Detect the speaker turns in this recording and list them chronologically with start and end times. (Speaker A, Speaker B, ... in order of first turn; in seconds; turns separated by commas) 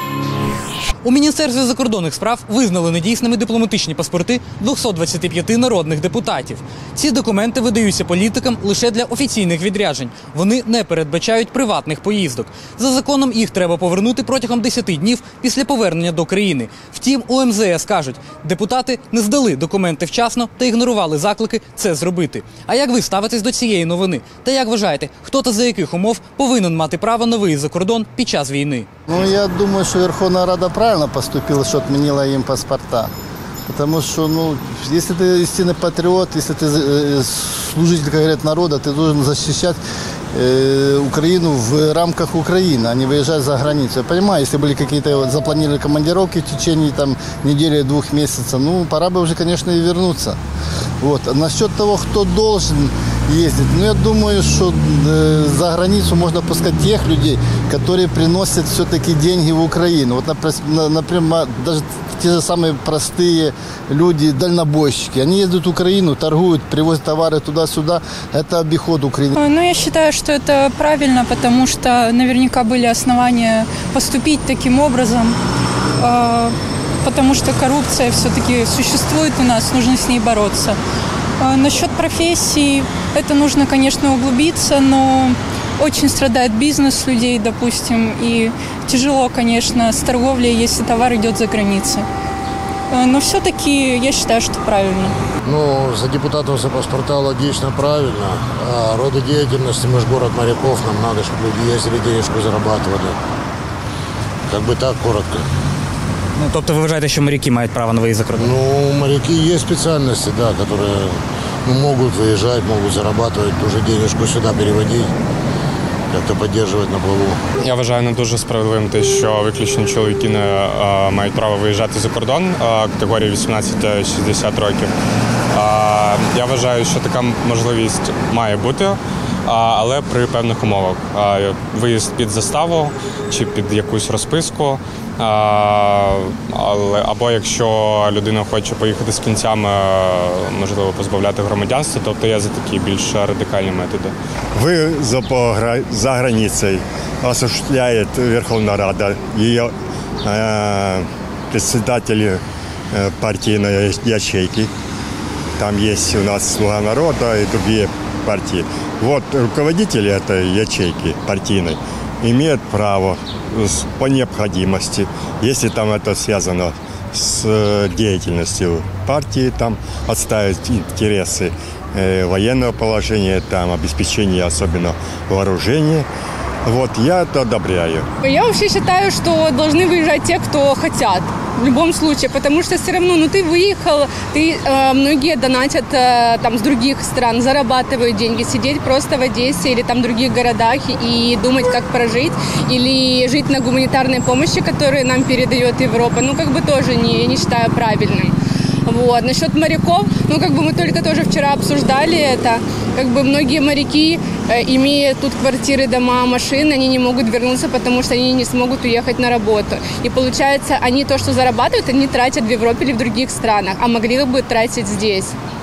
Speaker A: 1.0-28.9, Speaker B: 29.1-33.1, Speaker B: 33.7-39.8, Speaker B: 40.3-50.4, Speaker B: 51.0-69.4, Speaker C: 69.4-75.4, Speaker C: 76.0-80.8, Speaker C: 81.4-92.0, Speaker C: 92.9-95.2, Speaker D: 95.5-103.2, Speaker D: 104.5-105.5, Speaker A: 106.4-108.5, Speaker D: 108.3-115.1, Speaker D: 116.1-117.4, Speaker E: 117.6-124.9, Speaker E: 125.5-144.2, Speaker F: 144.5-149.7, Speaker F: 150.2-152.4, Speaker F: 152.9-154.7, Speaker F: 155.6-176.1, Speaker F: 176.7-178.1, Speaker G: 178.2-198.3, Speaker G: 198.9-215.4